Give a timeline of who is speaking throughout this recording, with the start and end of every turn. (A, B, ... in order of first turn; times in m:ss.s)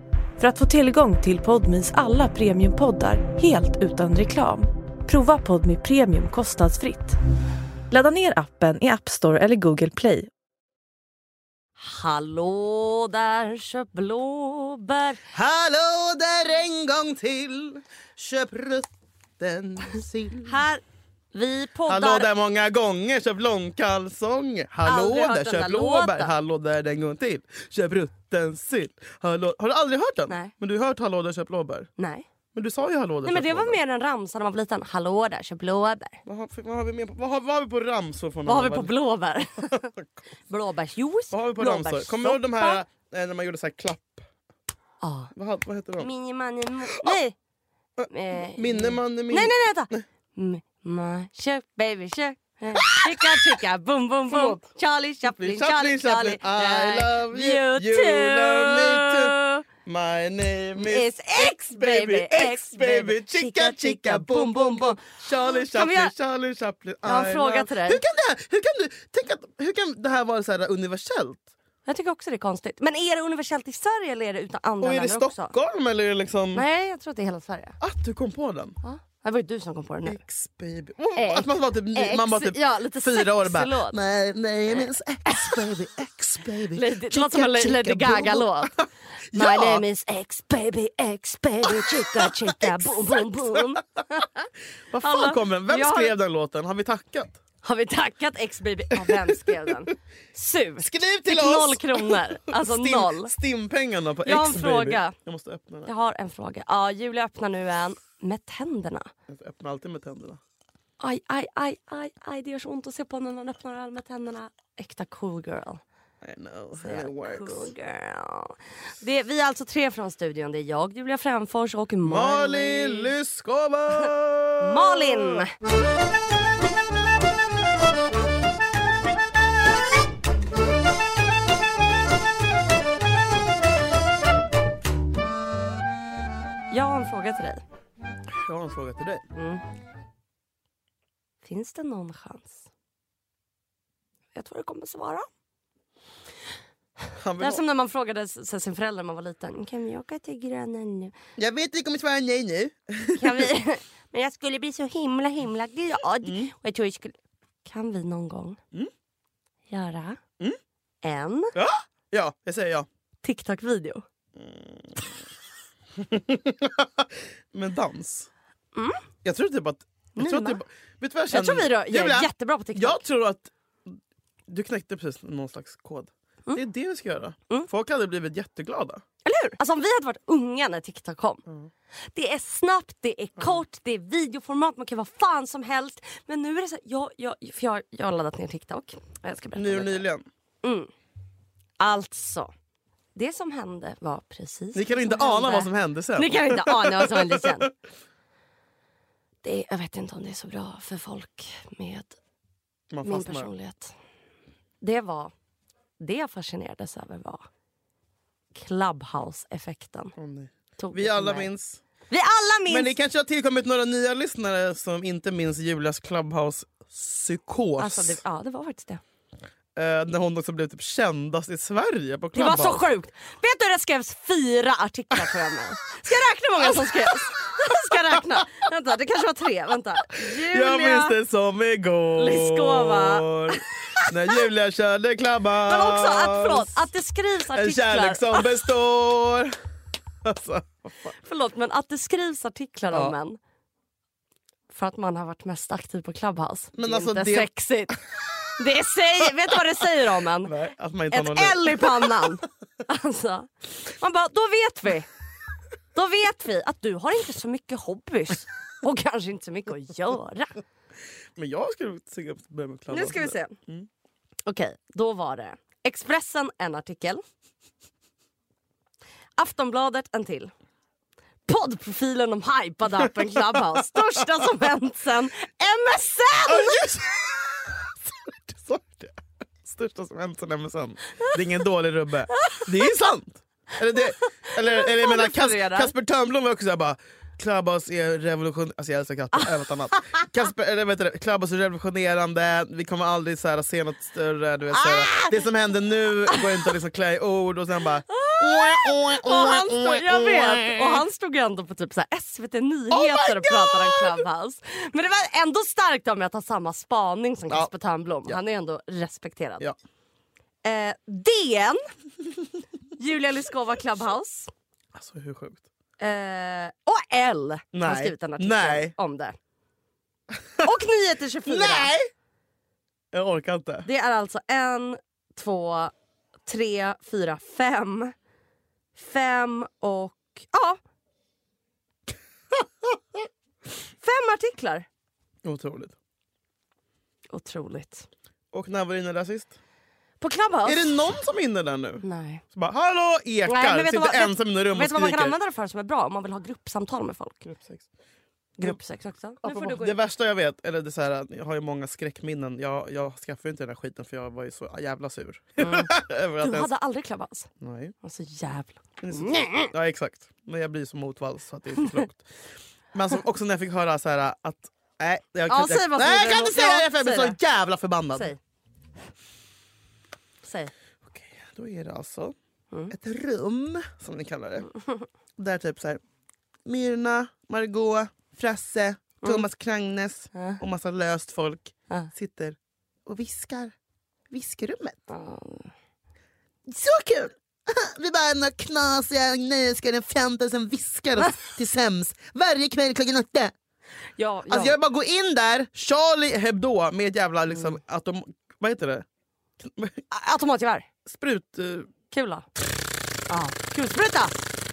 0:00.4-0:07.2 A
0:07.9-0:10.3 A
0:11.8-0:15.2 B
0:15.3-0:20.6 C
0:20.4-0:20.8 B
0:21.3-0:22.3 B
0:21.9-0:31.9 C
0:24.8-0:26.3 B
0:32.0-0:32.2 B
0:32.5-0:33.8 C
0:33.2-0:36.2 B
0:36.2-0:38.9 C
0:38.4-0:39.9 B
0:39.7-0:40.0 C
0:40.5-0:42.8 B
0:41.3-0:44.2 C
0:45.0-0:45.3 B
0:45.3-0:46.1 C
0:46.0-0:47.4 B
0:48.0-0:50.0 C
0:48.1-0:59.6 B
0:52.7-0:53.6 C
0:54.3-0:54.7 C
0:55.3-1:11.5 C
1:00.7-1:06.1 B
1:07.0-1:08.0 B
1:11.8-1:15.5 B
1:14.8-1:16.6 C
1:16.5-1:17.8 B
1:17.8-1:18.8 C
1:18.8-1:20.2 B
1:20.0-1:29.8 C
1:21.2-1:24.0 B
1:24.7-1:25.7 B
1:26.7-1:28.8 B
1:29.3-1:34.5 B
1:31.6-1:33.8 C
1:34.9-1:37.4 C
1:35.0-1:36.1 B
1:37.6-1:43.3 B
1:38.9-1:39.9 C
1:40.8-1:45.9 C
1:44.2-1:45.1 B
1:45.8-1:49.1 B
1:49.3-1:50.4 C
1:51.0-1:55.8 B
1:56.2-1:57.7 C
1:56.8-2:03.1 B
2:02.0-2:05.4 C
2:04.6-2:05.5 B
2:16.7-2:17.6 B
2:18.3-2:19.2 C
2:19.3-2:19.6 B
2:21.4-2:22.7 B
2:24.3-2:25.3 B
2:27.2-2:27.6 C
2:27.4-2:31.1 B
2:31.4-2:33.5 C
2:33.2-2:38.6 B
2:36.2-2:36.5 C
2:39.7-2:40.2 B
2:41.0-2:41.5 B
2:41.5-2:42.9 C
2:43.2-2:44.0 B
2:44.4-2:45.2 C
2:45.9-2:48.3 C
2:48.7-2:49.0 B
2:49.2-2:59.0 C
2:50.2-2:50.6 B
2:51.3-2:53.0 B
2:59.2-3:01.4 B
3:02.1-3:10.0 B
3:09.6-3:10.2 C
3:10.6-3:10.9 B
3:11.8-3:12.5 B
3:13.1-3:17.7 B
3:14.7-3:17.7 C
3:19.4-3:22.2 B
3:22.9-3:23.5 C
3:23.0-3:23.9 B
3:24.8-3:25.3 B
3:26.0-3:27.4 B
3:28.5-3:30.1 B
3:30.2-3:31.8 C
3:30.8-3:31.5 B
3:32.1-3:33.0 B
3:32.7-3:38.2 C
3:37.8-3:39.0 B
3:39.8-3:42.8 C
3:42.3-3:51.2 B
3:46.6-3:48.4 C
3:50.2-3:56.9 C
3:52.2-3:54.4 B
3:55.6-3:58.7 B
3:57.5-3:59.6 C
4:00.2-4:01.1 C
4:01.2-4:03.4 B
4:04.7-4:08.0 B
4:06.7-4:07.5 C
4:08.6-4:10.5 B
4:10.4-4:12.3 C
4:11.1-4:15.1 B
4:15.9-4:20.6 B
4:21.4-4:23.9 C
4:22.9-4:23.6 B
4:24.4-4:27.2 B
4:29.4-4:30.5 B
4:31.4-4:36.8 B
4:33.0-4:34.0 C
4:36.4-5:01.0 C
4:42.4-4:42.7 B
4:44.2-4:45.9 B
4:49.9-4:50.3 B
4:54.7-4:55.4 B
4:56.3-4:56.7 B
4:58.1-5:09.6 B
5:02.9-5:04.2 C
5:10.6-5:11.8 B
5:13.0-5:14.5 B
5:14.9-5:15.6 C
5:16.0-5:19.4 B
5:17.7-5:18.9 C
5:20.3-5:20.6 C
5:20.6-5:21.9 B
5:21.4-5:22.1 C
5:23.1-5:23.9 C
5:23.8-5:25.9 B
5:26.4-5:28.1 B
5:28.9-5:30.8 B
5:34.0-5:34.8 B
5:35.4-5:35.9 C
5:37.3-5:38.1 B
5:38.5-5:39.5 C
5:40.2-5:41.1 B
5:40.6-5:45.4 C
5:42.0-5:42.4 B
5:43.4-5:47.4 B
5:47.4-5:47.9 C
5:48.6-5:50.0 B
5:49.4-5:56.7 C
5:55.6-5:57.5 B
5:57.6-5:57.9 C
5:58.0-5:59.7 B
5:59.0-6:02.3 C
6:02.9-6:08.3 C
6:05.5-6:07.4 B
6:08.1-6:08.4 B
6:10.4-6:10.7 B
6:11.0-6:12.3 C
6:12.9-6:14.7 C
6:15.4-6:16.0 C
6:16.6-6:23.7 C
6:20.3-6:20.6 B
6:24.3-6:25.0 C
6:25.1-6:25.7 B
6:26.6-6:33.5 C
6:34.2-6:34.8 B
6:34.5-6:39.0 C
6:39.6-6:40.0 C
6:40.1-6:40.9 B
6:41.0-6:41.9 C
6:42.1-6:42.5 B
6:43.3-6:44.4 B